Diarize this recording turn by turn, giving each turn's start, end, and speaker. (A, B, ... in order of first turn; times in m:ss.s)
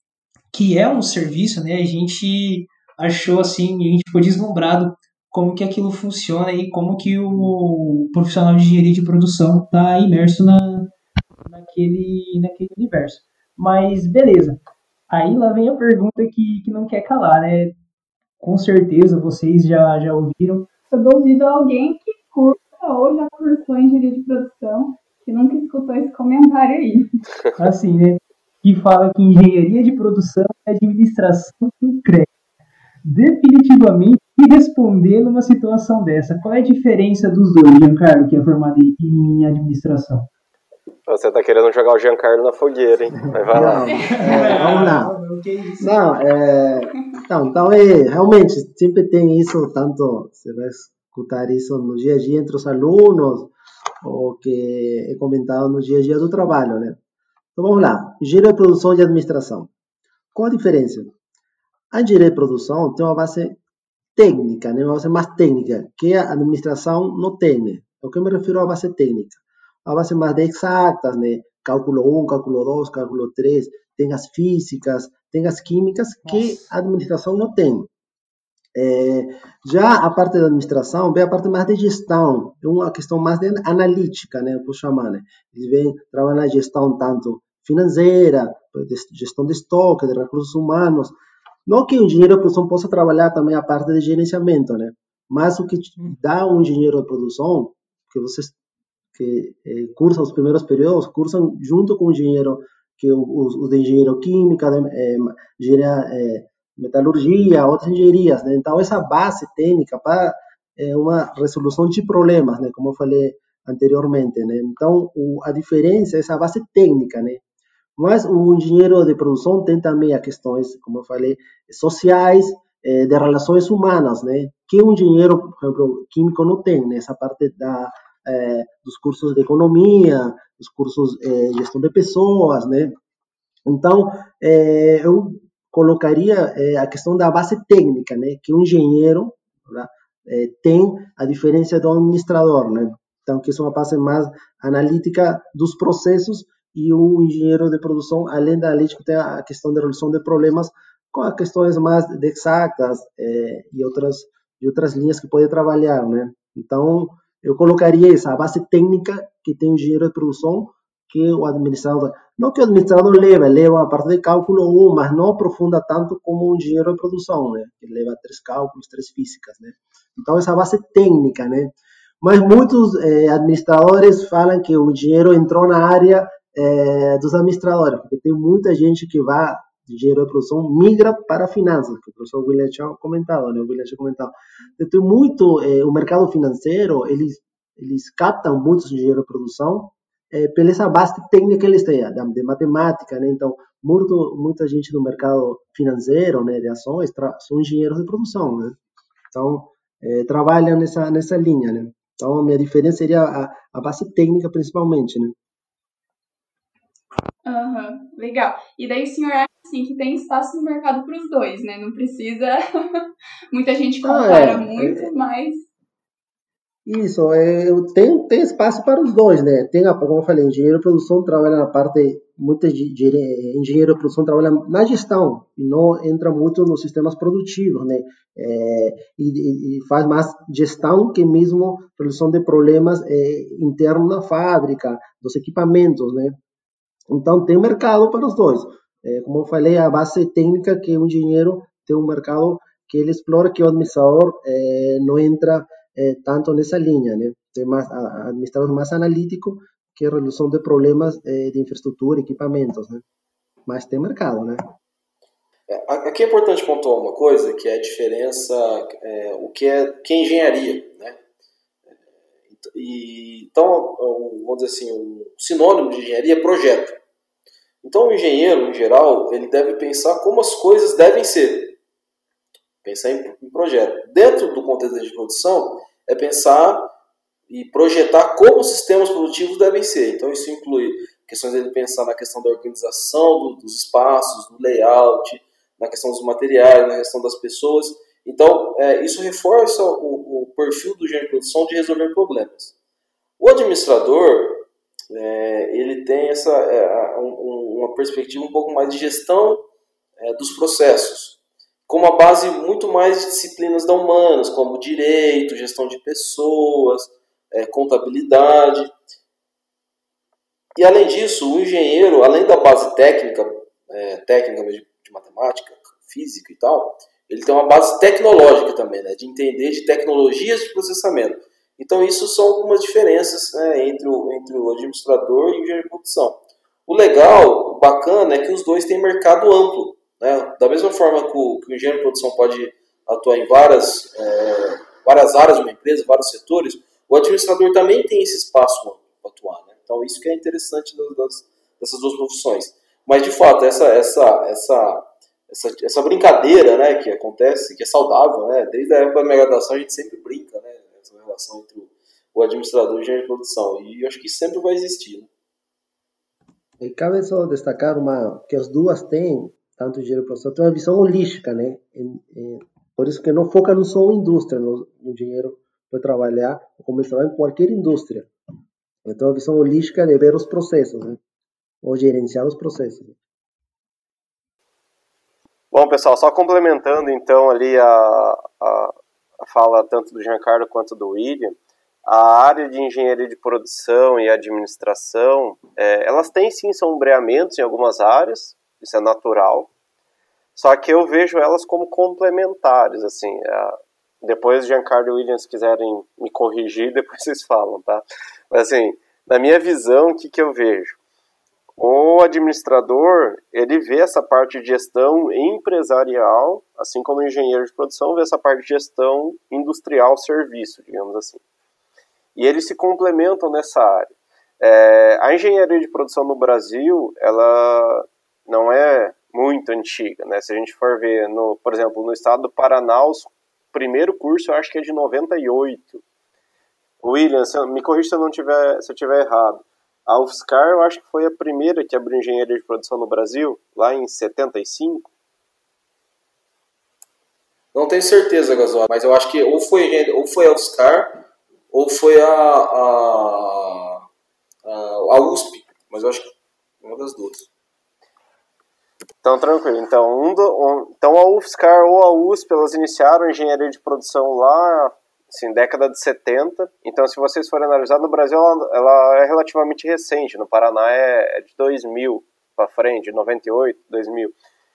0:00.5-0:10.9 A
0:11.4-0:14.6 A
0:15.1-0:17.7 A
0:18.4-0:20.7 A
0:20.9-0:27.2 B
0:27.6-0:32.3 A
0:33.0-0:40.3 A
0:41.1-0:44.0 C
0:43.4-0:45.1 D
0:43.6-0:45.9 A
0:43.8-0:44.6 B
0:45.8-0:57.0 D
0:57.6-0:59.7 D
1:00.3-1:01.1 D
1:01.9-1:03.6 D
1:04.2-1:17.9 D
1:16.2-1:16.6 A
1:18.7-1:38.5 D
1:39.1-1:57.4 D
1:58.0-2:12.9 D
2:13.6-3:18.8 D
3:19.3-3:25.3 D
3:27.4-3:35.7 B
3:34.0-3:35.1 D
3:36.8-3:56.4 D
3:57.1-4:13.0 D
4:13.6-4:14.6 D
4:15.7-4:21.2 E
4:22.6-4:27.0 E
4:27.8-4:31.8 E
4:32.8-4:36.9 E
4:37.5-4:52.7 E
4:53.4-4:59.6 E
5:00.2-5:08.9 E
5:10.8-5:55.3 E
5:56.8-6:08.3 D
6:09.0-6:11.2 D
6:11.8-6:13.2 D
6:15.7-6:29.7 C
6:30.5-6:41.0 C
6:41.8-6:51.4 C
6:52.3-7:06.0 C
7:07.0-7:15.1 C
7:17.7-7:24.0 E
7:24.6-7:27.5 E
7:29.2-7:44.3 C